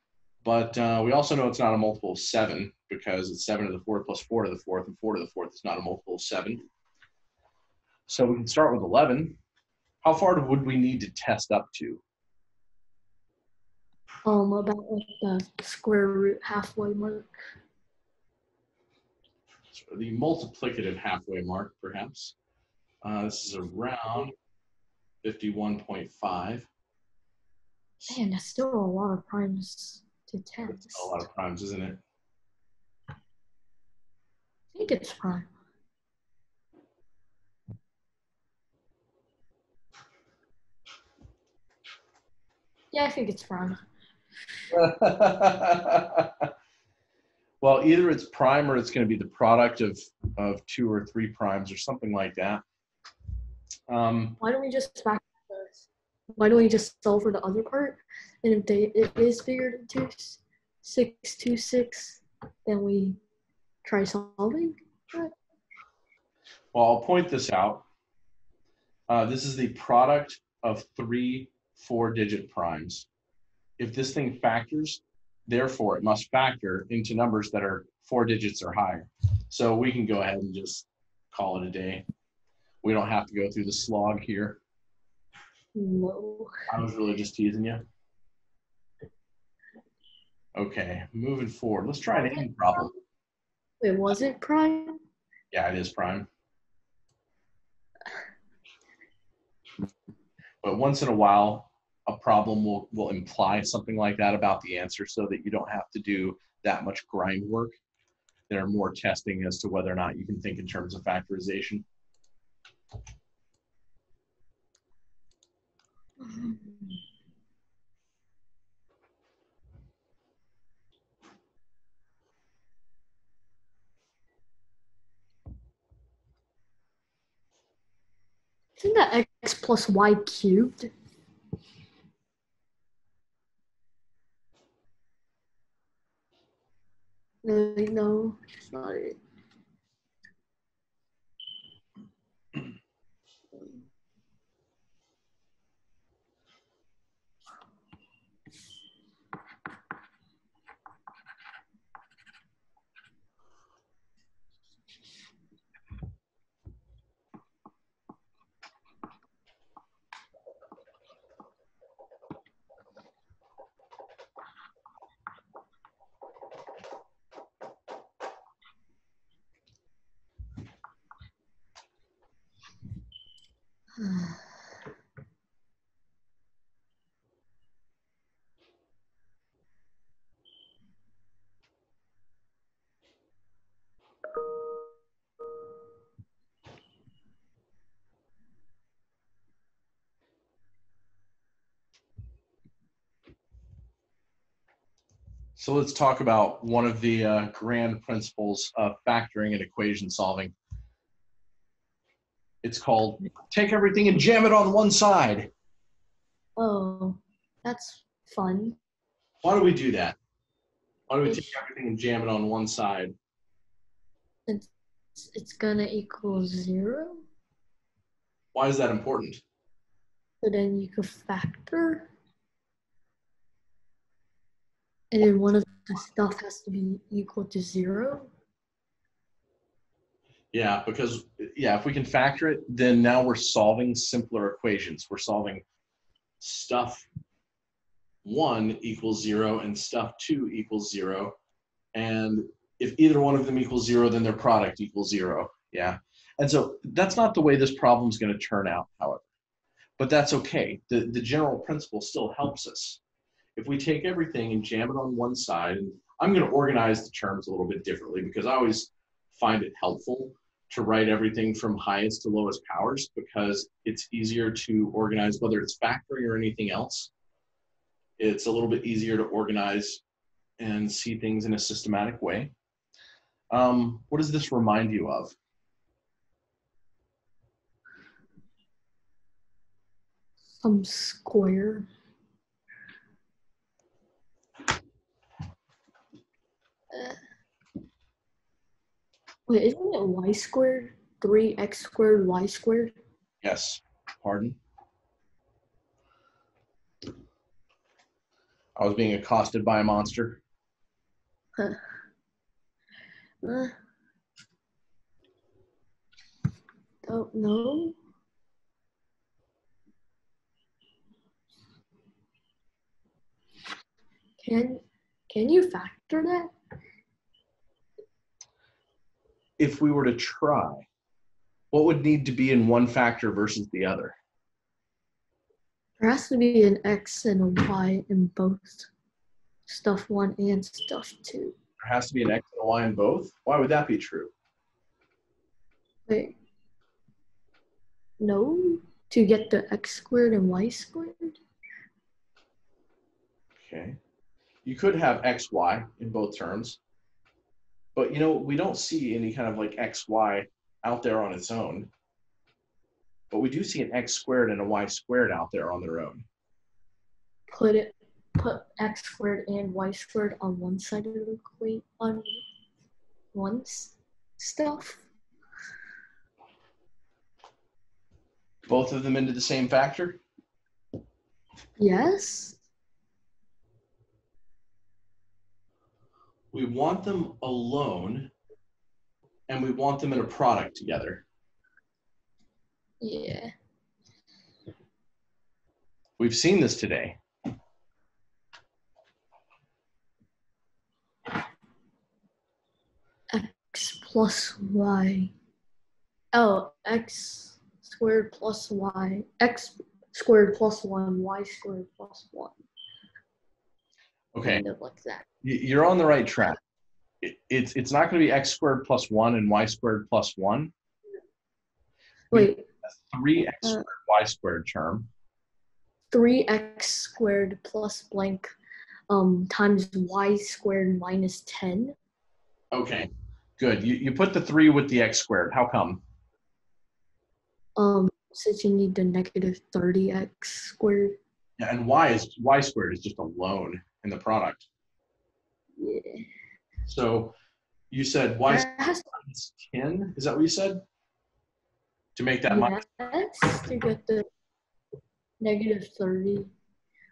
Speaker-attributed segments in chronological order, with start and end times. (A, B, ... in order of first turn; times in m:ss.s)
0:00.4-0:06.6 A
0:08.1-0:09.4 A
0:10.0-0:12.0 A
0:14.2-0:17.4 B
0:19.7-0:22.4 A
0:23.0-0:24.3 A
0:25.2-0:26.7 A
0:28.1-0:31.2 B
0:30.6-0:32.0 A
0:34.7-0:35.5 B
0:42.9-0:43.8 B
0:44.7-0:46.5 A
0:47.6-0:52.6 A
0:53.9-0:54.4 A
0:54.4-1:03.2 B
1:03.8-1:05.3 B
1:06.7-1:07.8 A
1:09.1-1:13.1 A
1:13.8-1:22.0 A
1:22.8-1:24.6 A
1:25.7-1:26.5 B
1:26.7-1:27.8 A
1:30.5-1:32.9 A
1:33.8-1:35.0 B
1:35.5-1:36.3 A
1:40.6-1:47.7 A
1:48.5-1:51.8 A
1:56.2-1:57.0 B
2:08.8-2:10.9 B
2:17.4-2:19.2 B
2:54.0-2:54.7 B
3:15.6-3:20.5 A
3:22.6-3:25.5 A
3:26.6-3:28.8 B
3:29.4-3:30.2 A
3:31.1-3:33.1 A
3:34.4-3:37.2 B
3:38.5-3:39.4 A
3:40.4-3:42.1 B
3:45.1-3:48.3 B
3:50.5-3:55.6 A
3:56.4-3:57.1 A
3:58.2-4:01.3 A
4:01.9-4:09.3 A
4:10.0-4:13.0 A
4:13.6-4:27.1 A
4:28.2-4:30.0 A
4:30.6-4:32.5 A
4:33.5-4:35.3 A
4:40.6-4:41.9 B
4:46.9-4:47.2 B
4:49.5-4:52.9 B
4:53.4-4:54.6 A
4:58.8-5:00.4 A
5:03.4-5:03.7 B
5:07.0-5:08.0 B
5:14.4-5:16.5 B
5:19.6-5:20.8 A
5:21.7-5:24.2 A
5:26.0-5:28.9 B
5:29.7-5:31.6 B
5:31.8-5:34.3 A
5:36.1-5:36.4 B
5:38.2-5:41.4 B
5:43.6-5:44.0 A
5:44.6-5:46.8 A
5:47.9-5:51.9 A
5:53.3-5:56.2 A
5:57.5-6:02.4 B
6:03.3-6:05.0 B
6:08.7-6:10.2 A
6:11.8-6:12.6 B
6:16.5-6:18.3 A
6:19.5-6:21.2 A
6:23.0-6:23.5 B
6:26.2-6:27.2 A
6:33.3-6:35.3 B
6:36.3-6:42.6 B
6:44.3-6:44.6 A
6:44.4-6:45.2 B
6:45.4-6:46.6 A
6:47.2-6:50.7 A
6:52.3-6:52.6 B
6:52.3-6:55.1 A
6:56.1-6:58.5 B
6:59.1-7:02.0 B
7:02.7-7:06.0 A
7:07.8-7:11.2 B
7:11.6-7:14.7 A
7:15.8-7:16.3 B
7:16.8-7:17.3 A
7:17.9-7:20.8 A
7:18.5-7:19.1 B
7:22.1-7:22.8 A
7:22.5-7:24.3 B
7:25.4-7:26.5 B